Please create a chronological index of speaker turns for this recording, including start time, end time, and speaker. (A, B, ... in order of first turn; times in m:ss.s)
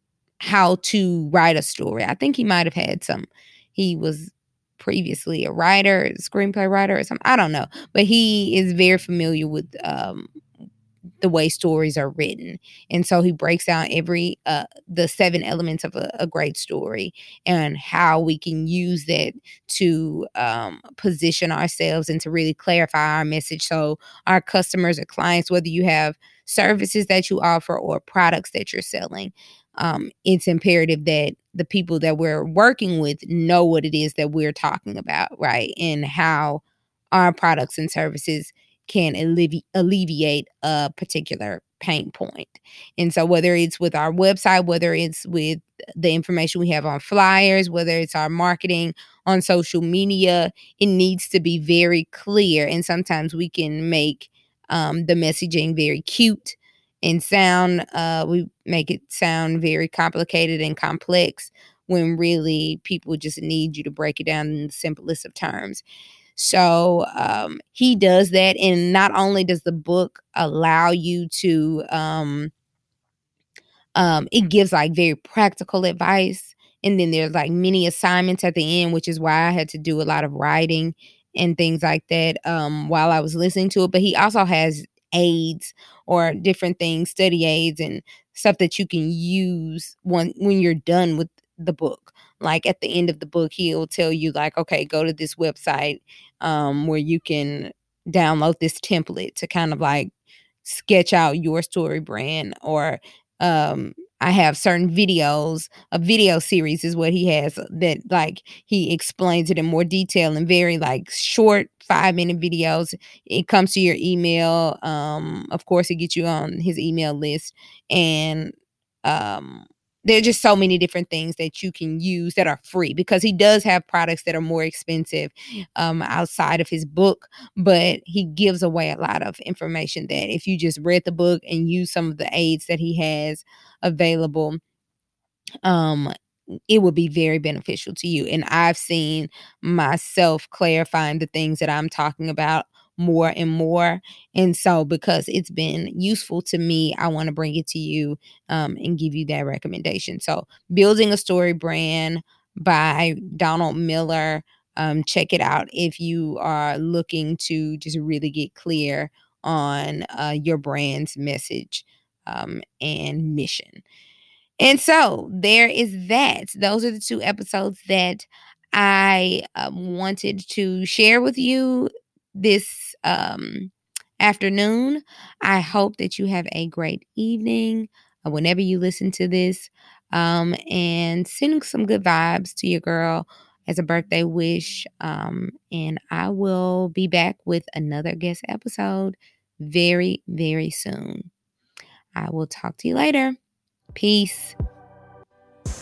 0:00.4-0:10.3 A
0:11.2-0:36.6 A
0:37.1-1:05.8 A
1:06.4-1:12.5 A
1:14.0-1:40.1 A
1:40.6-1:58.5 A
1:59.0-2:14.6 A
2:15.6-2:16.1 A
2:16.7-2:43.8 A
2:44.6-3:11.3 A
3:12.2-3:13.4 A
3:14.0-3:14.6 A